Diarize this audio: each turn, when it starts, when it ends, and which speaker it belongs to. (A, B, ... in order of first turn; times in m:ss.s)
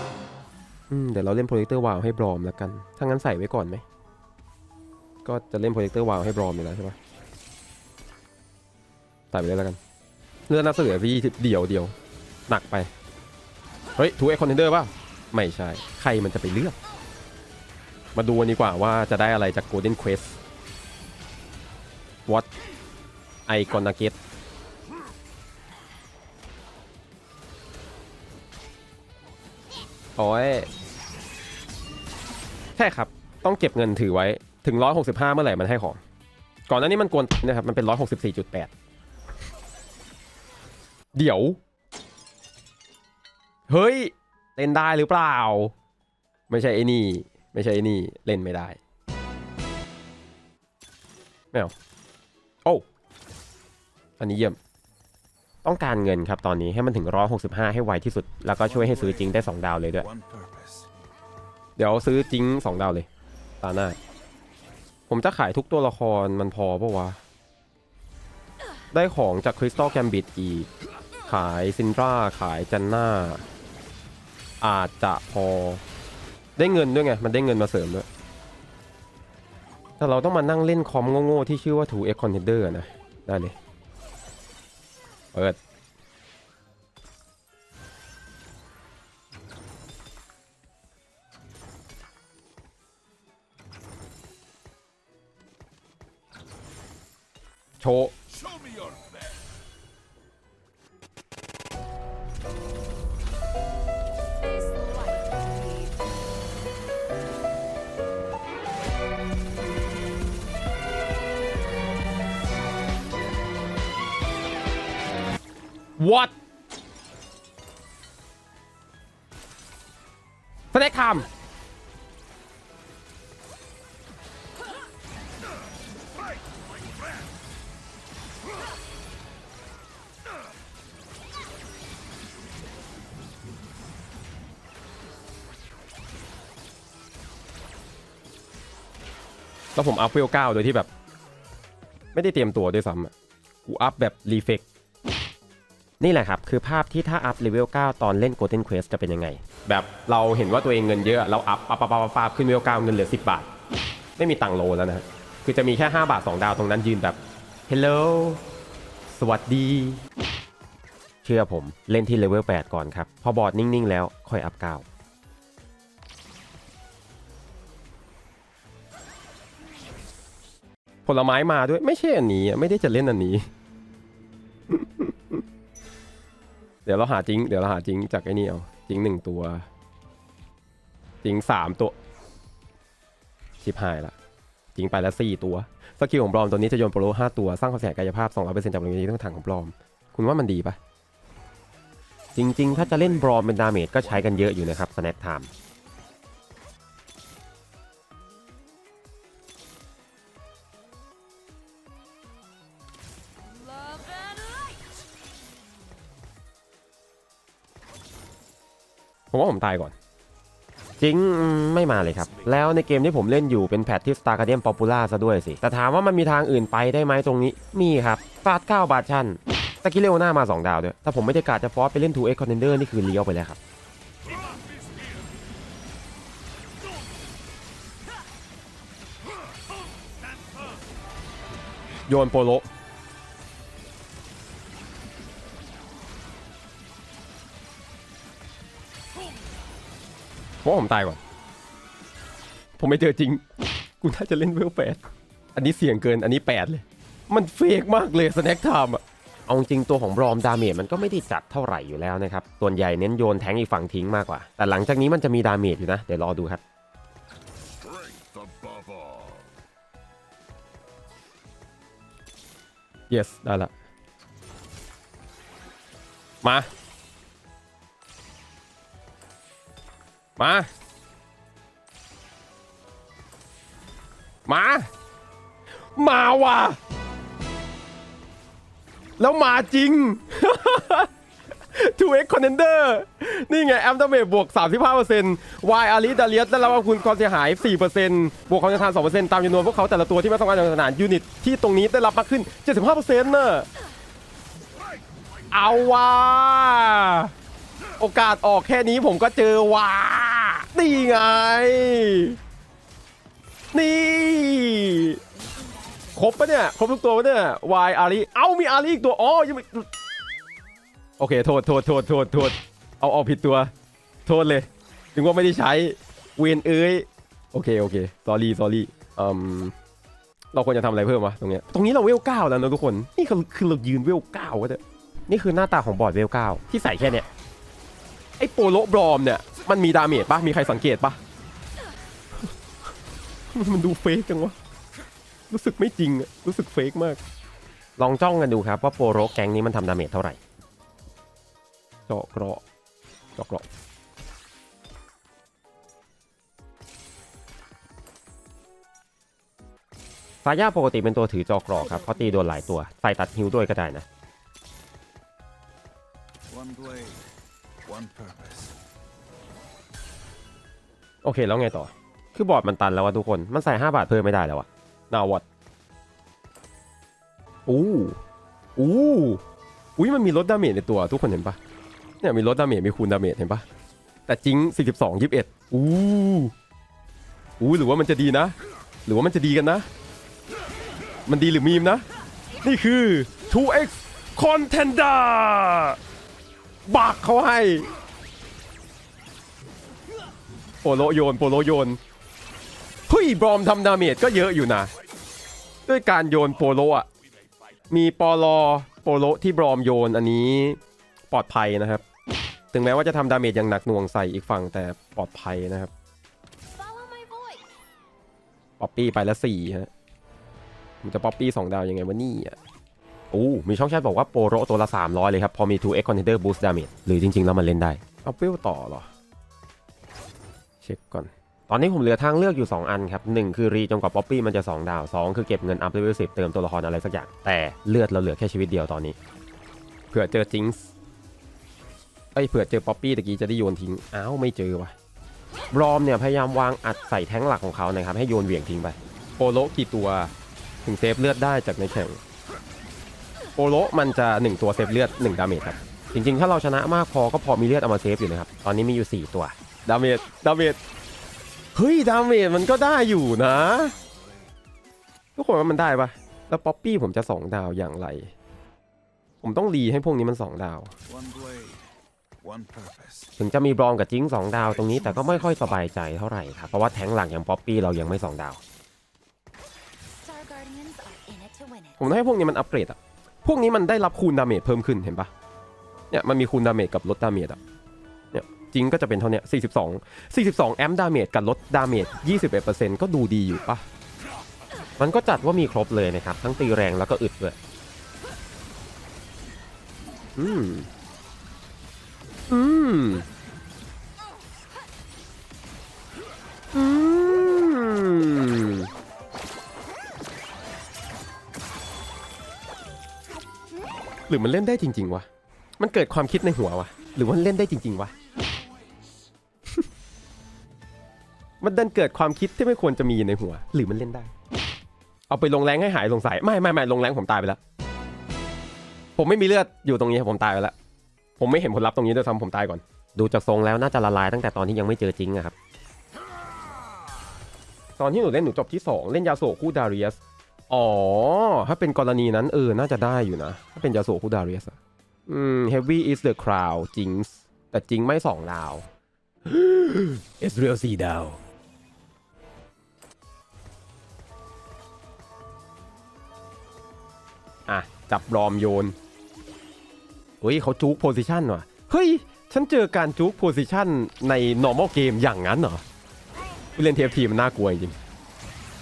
0:00.9-0:03.8 A
0:05.2-0:07.0 A
0:09.3-0:09.8 A
0:10.5-0:12.0 A
0:12.5-0:12.9 A
0:14.0-0:16.8 A
0:18.2-0:20.4 A
0:23.5-0:24.2 A
0:30.2-0:30.7 A
0:32.8-0:36.0 A
0:36.7-0:38.7 A
0:41.2-0:41.6 A
0:43.7-0:45.7 A
0:46.5-0:48.8 A
0:54.2-0:54.6 A
0:55.6-1:00.1 A
0:58.6-1:00.9 B
1:01.8-1:03.1 A
1:03.6-1:04.0 A
1:05.1-1:07.2 A
1:08.9-1:10.7 A
1:11.3-1:13.4 A
1:14.6-1:15.8 A
1:16.6-1:18.1 A
1:20.0-1:23.6 A
1:37.8-1:38.1 A
1:38.3-1:39.4 B
1:44.4-1:46.0 C
1:56.0-1:56.3 A
2:00.7-2:01.3 A
2:19.8-2:20.9 A
2:22.1-2:23.1 A
2:23.7-2:24.6 A
2:26.0-2:33.5 A
2:34.2-2:38.4 A
2:39.1-2:40.0 A
2:41.2-2:44.9 A
2:51.1-2:53.5 A
2:54.7-2:55.4 A
2:56.9-2:59.7 A
3:01.2-3:02.0 A
3:03.6-3:04.2 A
3:04.8-3:10.8 A
3:12.4-3:15.5 A
3:12.6-3:13.4 B
3:14.0-3:14.7 B
3:23.4-3:24.9 C
3:29.3-3:29.9 A
3:31.0-3:43.6 A
3:52.1-3:52.7 A
4:00.6-4:01.2 A
4:02.8-4:03.4 A
4:04.0-4:05.0 A
4:05.6-4:16.6 A
4:17.8-4:19.5 B
4:23.1-4:23.7 A
4:26.4-4:26.7 A
4:30.4-4:30.7 A
4:34.5-4:34.9 A
4:36.0-4:36.8 A
4:39.2-4:41.1 A
4:41.7-4:53.7 A
4:55.5-4:57.3 A
4:58.0-5:02.4 A
5:03.7-5:05.2 A
5:05.3-5:06.3 C
5:06.2-5:09.9 A
5:11.2-5:13.7 A
5:14.3-5:19.8 A
5:20.5-5:27.3 A
5:28.4-5:31.2 A
5:33.5-5:34.6 A
5:35.5-5:37.2 A
5:38.0-5:40.4 A
5:42.1-5:42.6 A
5:43.4-5:43.6 A
5:50.4-5:54.1 A
5:56.5-5:57.3 B
5:57.8-5:58.8 B
6:01.2-6:05.4 A
6:07.7-6:08.2 A
6:08.8-6:09.4 A
6:10.0-6:11.6 A
6:12.2-6:13.6 A
6:14.3-6:16.5 A
6:17.6-6:18.6 A
6:19.1-6:19.9 A
6:21.3-6:22.0 A
6:22.6-6:26.0 A
6:26.9-6:27.9 A
6:30.8-6:32.0 A
6:33.1-6:34.9 A
6:35.9-6:37.1 A
6:37.9-6:42.0 A
6:42.7-6:45.9 A
6:46.7-6:47.6 C
6:48.8-6:49.9 A
6:51.0-6:52.6 A
6:53.3-6:59.1 A
7:00.8-7:09.2 A
7:10.1-7:10.9 A
7:12.4-7:15.0 A
7:15.7-7:20.3 A
7:20.8-7:22.2 A
7:23.6-7:30.8 A
7:31.8-7:33.9 A
7:33.6-7:34.5 B
7:35.4-7:38.3 A
7:39.4-7:40.9 A
7:41.1-7:41.9 B
7:42.4-7:43.3 B
7:43.4-7:48.6 A
7:44.9-7:45.8 B
7:50.2-7:52.1 C
7:52.0-7:55.3 A
7:56.1-7:57.6 A
7:58.3-8:03.8 A
8:05.0-8:07.6 A
8:10.4-8:10.9 A
8:12.5-8:13.2 A
8:16.7-8:18.9 A
8:24.3-8:25.3 A
8:25.8-8:28.1 A
8:31.6-8:34.3 A
8:35.3-8:37.6 A
8:39.2-8:40.7 A
8:41.4-8:45.6 A
8:48.0-8:58.9 A
8:59.5-9:01.4 A
9:07.7-9:09.0 A
9:10.4-9:15.8 A
9:16.8-9:18.0 A